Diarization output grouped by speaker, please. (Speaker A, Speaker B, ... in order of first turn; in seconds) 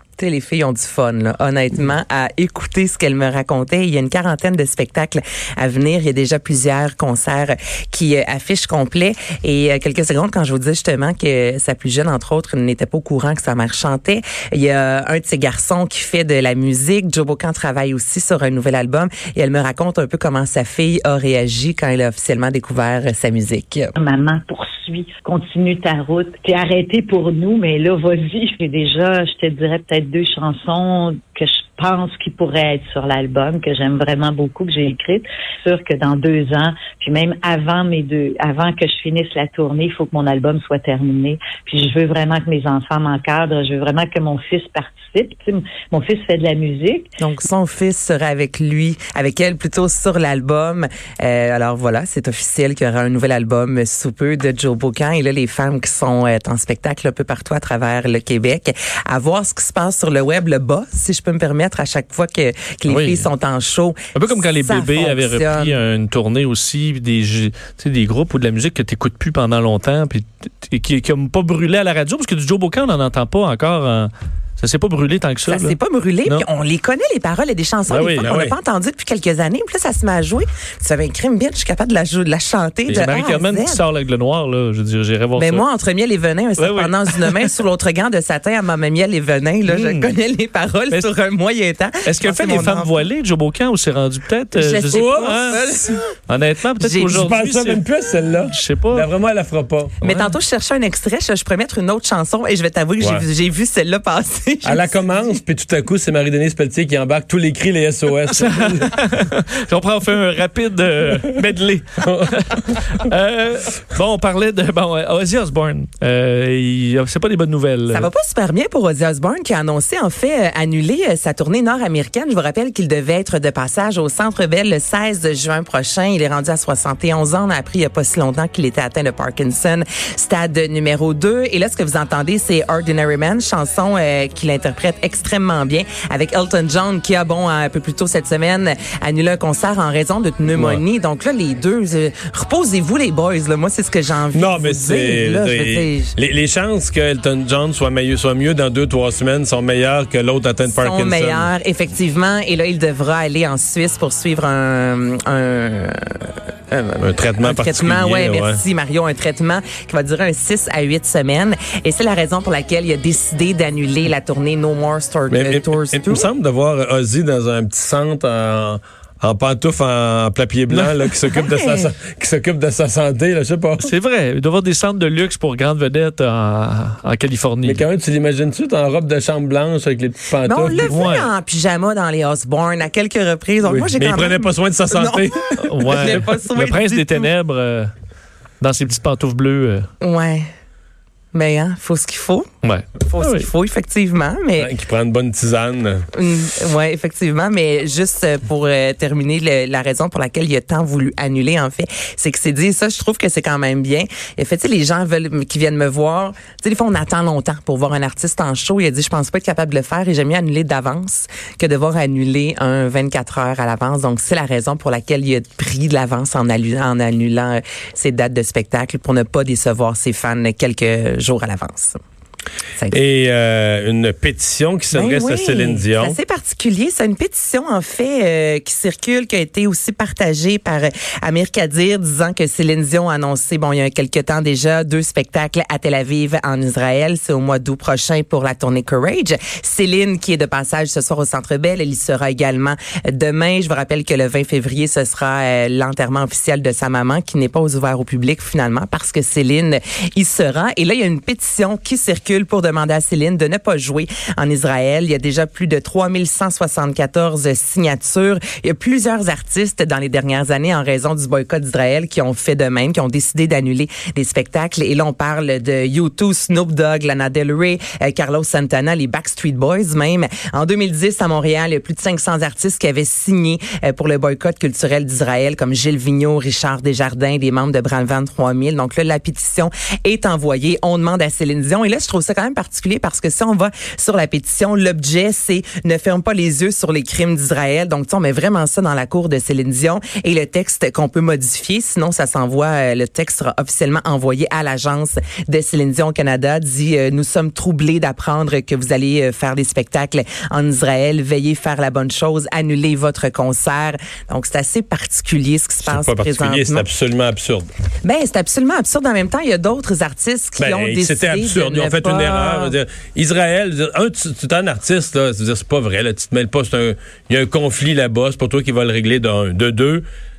Speaker A: 0.2-23.9, 47.2-65.8, 75.5-83.8, 85.3-93.1, 94.5-96.0, 96.8-97.1, 100.0-105.4, 117.9-146.1, 150.7-166.3, 171.3-171.9, 180.4-187.3, 190.0-190.4, 191.3-192.4, 193.0-194.7, 196.1-222.0, 224.9-306.9, 308.0-312.8
Speaker B: 24.0-47.1
Speaker C: 62.9-63.3, 64.1-76.5, 77.9-78.3, 82.9-85.6, 86.6-87.5, 89.7-90.1, 92.0-95.6, 96.3-97.8, 98.5-99.1, 100.0-100.3, 108.3-118.1, 173.8-177.8, 180.8-181.3, 185.6-187.9, 188.6-189.9, 192.6-193.5
Speaker D: 78.2-78.5, 94.9-95.5, 97.1-100.0, 103.0-103.2, 104.6-108.9, 112.0-113.0, 140.5-140.8, 144.3-151.5, 157.0-158.6, 165.3-173.9, 177.6-180.9, 183.6-186.2, 194.6-196.1, 222.9-226.2, 305.8-307.7, 310.6-320.0